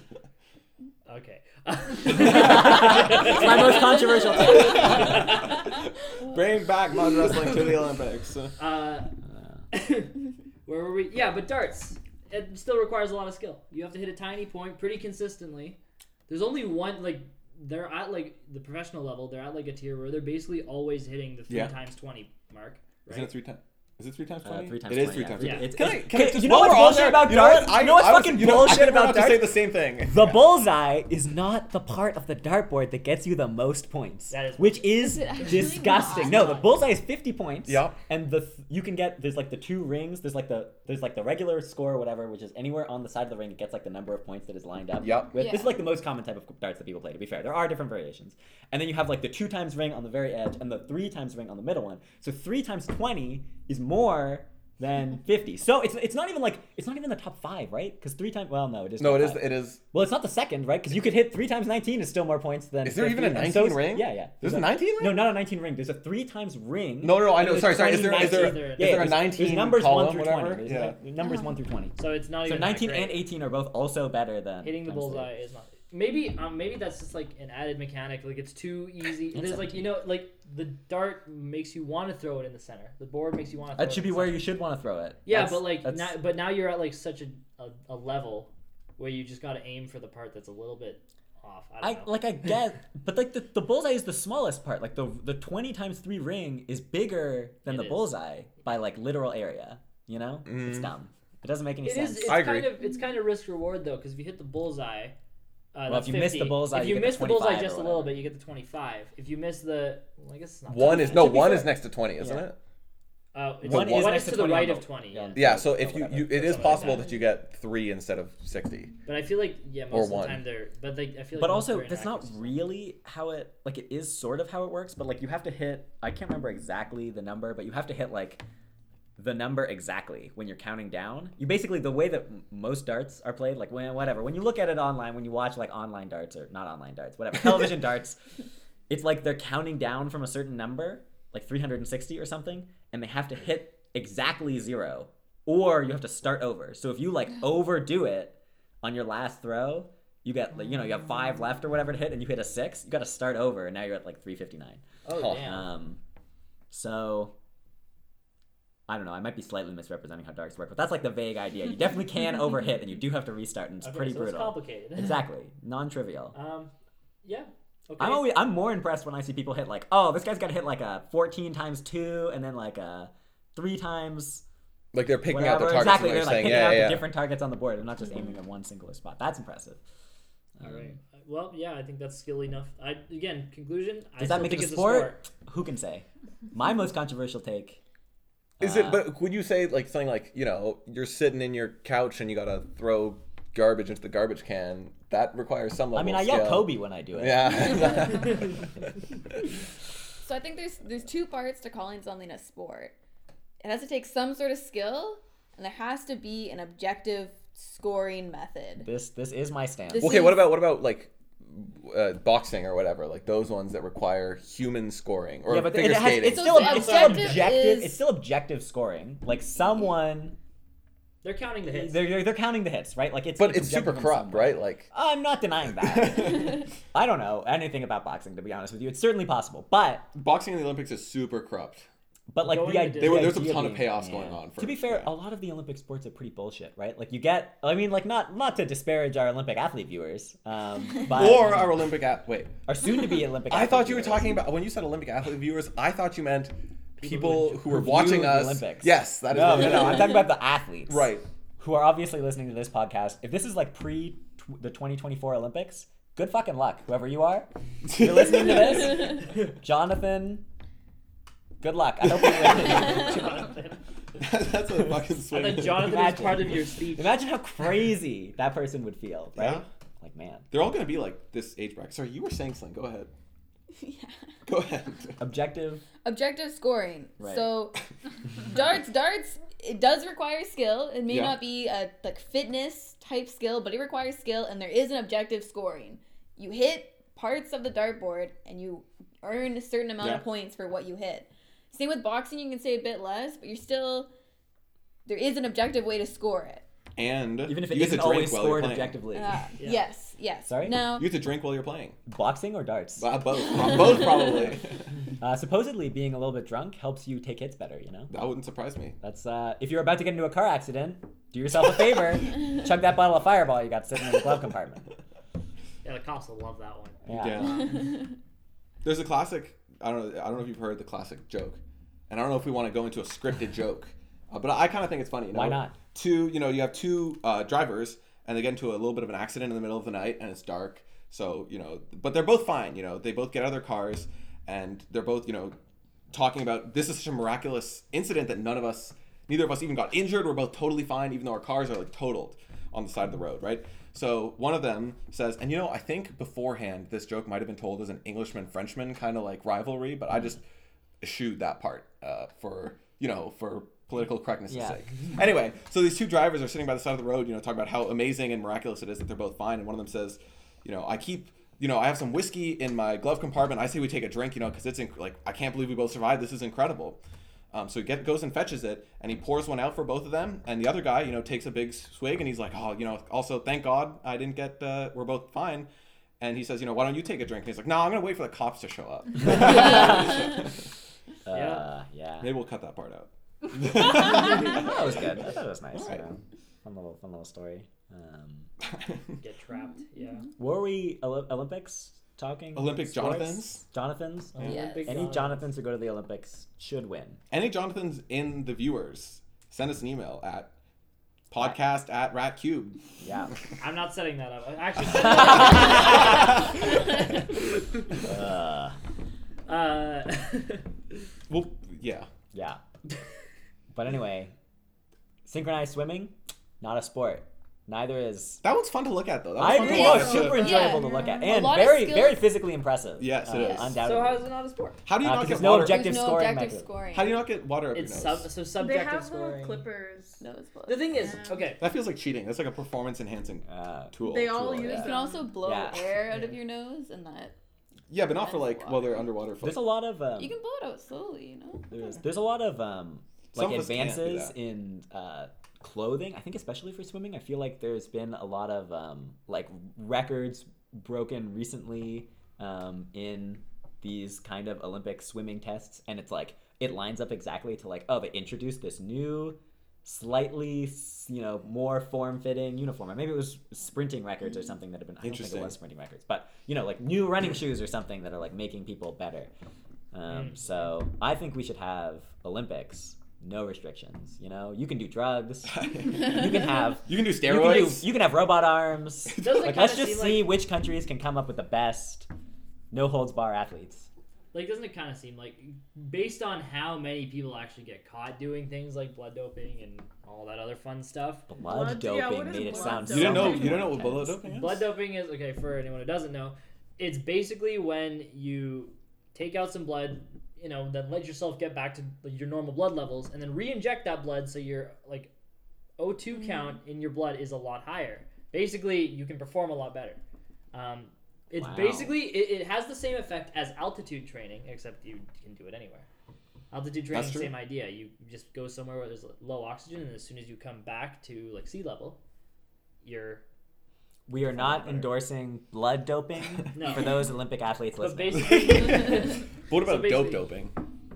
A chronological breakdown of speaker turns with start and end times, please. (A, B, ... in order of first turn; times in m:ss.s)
0:01.0-0:05.5 A
0:02.1-0:05.3 B
0:04.3-0:08.5 C
0:08.6-0:09.1 A
0:09.3-0:09.6 B
0:09.7-0:23.3 A
0:21.5-0:21.8 C
0:23.1-0:30.4 C
0:24.4-1:15.3 B
0:25.4-0:25.7 A
0:34.3-0:34.9 A
0:35.0-0:36.6 D
0:36.1-0:36.7 A
0:37.6-0:38.0 C
0:45.0-0:45.4 C
0:45.3-0:45.8 D
0:59.0-0:59.8 C
1:02.8-1:05.3 C
1:07.0-1:11.0 C
1:07.9-1:09.2 A
1:11.2-1:11.5 D
1:12.0-1:13.2 A
1:14.6-1:24.5 A
1:19.3-1:20.0 B
1:23.8-1:26.2 B
1:25.2-1:32.2 A
1:31.8-1:42.4 B
1:37.6-1:38.2 A
1:40.4-1:40.9 C
1:41.8-1:45.1 A
1:42.2-1:42.7 C
1:45.7-1:51.7 A
1:45.9-1:48.2 B
1:50.7-1:52.6 C
1:51.2-1:51.4 B
1:52.2-1:52.5 B
1:53.3-1:55.5 A
1:53.6-1:54.4 C
1:53.6-1:57.0 B
1:55.3-1:58.9 C
1:56.3-1:57.2 A
1:59.0-2:02.6 A
1:59.9-2:00.4 C
2:01.4-2:08.4 B
2:09.2-2:18.2 B
2:18.9-2:34.8 B
2:35.0-2:35.7 A
2:35.1-2:35.4 C
2:35.3-2:36.0 B
2:36.7-2:37.3 B
2:38.9-2:46.3 B
2:43.8-2:45.2 A
2:46.3-2:46.7 A
2:47.2-2:48.4 A
2:48.0-2:54.4 B
2:54.9-2:57.1 C
2:55.3-2:59.8 B
3:00.6-3:00.9 B
3:00.6-3:05.2 A
3:04.2-3:07.8 B
3:08.6-3:09.1 B
3:08.6-3:18.7 C
3:15.9-3:18.2 B
3:20.2-3:22.9 D
3:23.6-3:28.9 D
3:28.8-3:30.2 B
3:29.9-3:30.6 D
3:30.0-3:36.5 C
3:35.5-3:40.4 B
3:36.3-3:38.0 D
3:36.5-3:37.5 A
3:41.2-3:42.0 A
3:41.6-3:50.1 B
3:43.4-3:44.9 C
3:45.8-3:46.6 C
3:50.1-3:51.9 C
3:52.3-4:01.8 B
3:52.4-3:53.4 A
3:53.0-3:55.1 C
4:01.0-4:02.6 C
4:02.7-4:04.3 B
4:03.4-4:10.3 C
4:07.0-4:20.4 B
4:10.9-4:11.2 C
4:17.9-4:19.1 C
4:21.6-4:23.5 B
4:22.2-4:22.7 C
4:22.8-4:23.8 A
4:24.2-4:26.1 C
4:25.3-4:27.1 A
4:25.6-4:30.5 B
4:29.4-4:29.6 C
4:30.5-4:33.1 C
4:33.8-4:34.2 D
4:34.4-4:35.2 C
4:35.2-4:35.8 B
4:36.0-4:37.7 D
4:37.2-4:37.5 B
4:38.4-4:54.1 D
4:41.1-4:41.4 C
4:50.0-4:50.2 C
4:55.0-4:56.6 D
4:57.0-4:59.0 C
4:57.4-4:59.5 B
4:59.1-5:01.1 D
4:59.6-4:59.9 A
5:00.5-5:00.8 B
5:00.9-5:02.0 C
5:02.1-5:03.1 B
5:03.0-5:04.8 C
5:05.2-5:08.1 B
5:08.1-5:09.0 C
5:09.0-5:14.8 B
5:15.8-5:17.0 A
5:17.0-5:17.6 B
5:17.1-5:17.8 C
5:18.8-5:35.6 C
5:25.3-5:25.8 B
5:36.1-5:50.4 C
5:51.0-6:07.0 C
5:54.5-5:54.8 B
6:07.5-6:15.7 C
6:16.2-6:20.6 C
6:19.2-6:20.4 B
6:21.2-6:22.3 B
6:21.3-6:21.7 A
6:22.2-6:26.0 C
6:23.9-6:28.5 B
6:28.7-6:29.1 C
6:29.2-6:30.3 A
6:30.4-6:37.2 B
6:32.5-6:33.6 C
6:34.3-6:35.5 A
6:34.4-6:34.8 D
6:37.3-6:40.5 C
6:41.3-6:42.8 C
6:43.0-6:43.3 B
6:43.6-6:46.3 A
6:44.9-6:46.2 B
6:48.0-6:48.8 B
6:49.5-6:50.6 A
6:51.3-6:52.1 C
6:52.3-6:52.6 B
6:53.7-6:54.3 B
6:55.2-6:58.4 B
6:58.4-7:00.5 C
6:59.4-7:04.3 B
6:59.5-7:01.3 E
6:59.7-7:02.2 D
7:03.0-7:03.8 C
7:03.4-7:03.7 D
7:03.8-7:04.8 A
7:04.8-7:05.9 C
7:05.0-7:06.7 B
7:05.5-7:07.2 D
7:06.9-7:08.3 C
7:07.7-7:09.7 A
7:08.6-7:10.2 E
7:10.2-7:11.0 D
7:10.7-7:11.6 A
7:10.9-7:11.5 E
7:11.6-7:14.9 C
7:13.5-7:14.9 B
7:14.0-7:15.3 E
7:14.7-7:17.3 D
7:15.4-7:15.9 B
7:16.0-7:16.4 A
7:17.9-7:19.7 C
7:18.0-7:19.0 D
7:19.4-7:20.3 B
7:20.2-7:21.9 D
7:21.7-7:49.3 B
7:23.3-7:24.3 C
7:45.0-7:45.6 C
7:49.9-8:02.1 B
7:50.1-7:50.7 A
7:55.5-7:56.3 C
7:56.8-7:57.9 C
7:59.1-7:59.4 C
7:59.2-8:00.4 A
8:02.7-8:03.9 B
8:04.3-8:11.3 A
8:11.3-8:14.2 B
8:11.4-8:13.8 E
8:12.5-8:14.6 C
8:14.3-8:25.1 A
8:25.8-8:30.0 A
8:30.5-8:35.9 A
8:31.4-8:32.0 B
8:36.5-8:42.0 A
8:36.9-8:37.3 C
8:42.8-8:43.2 A
8:44.1-8:48.8 B
8:44.4-8:44.8 C
8:44.6-8:44.9 A
8:46.5-8:47.0 A
8:46.6-8:46.9 C
8:47.8-8:50.3 A
8:48.2-8:50.5 C